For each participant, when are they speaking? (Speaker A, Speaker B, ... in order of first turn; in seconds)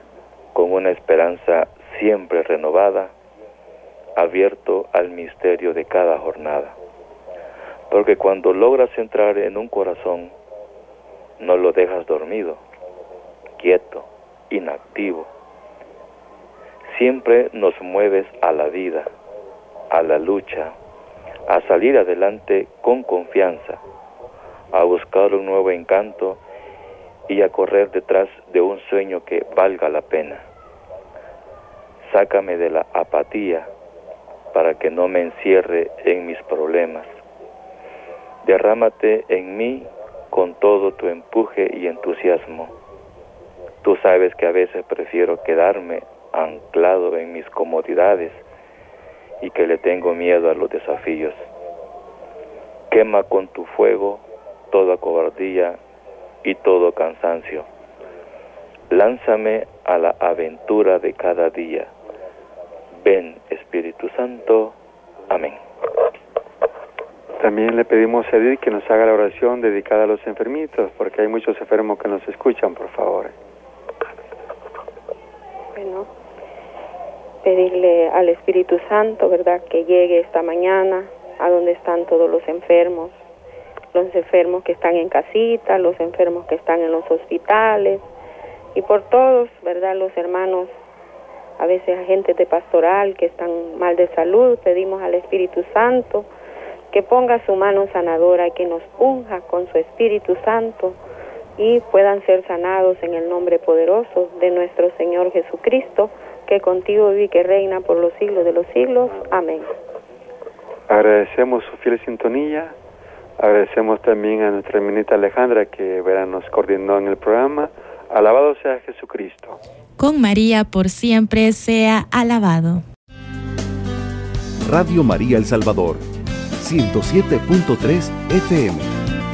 Speaker A: 0.5-3.1, 4.2-6.8, 7.9-10.3, 11.4-12.6, 13.6-15.3, 16.9-19.1, 19.9-20.8, 21.5-23.8, 24.7-26.4, 27.3-30.4, 32.0-33.7, 34.5-37.1, 38.4-42.7, 43.8-48.4, 49.4-51.5, 52.9-55.8, 56.4-57.7, 58.9-61.9, 63.0-64.8, 65.3-65.6
Speaker B: 67.4-73.3, 110.9-112.8, 113.4-119.6
Speaker C: 75.7-76.1, 77.4-83.2, 83.9-88.0, 88.7-90.7, 91.6-96.3, 96.9-101.0, 101.6-109.7
Speaker D: 120.0-122.8
Speaker E: 124.6-126.1, 126.6-128.9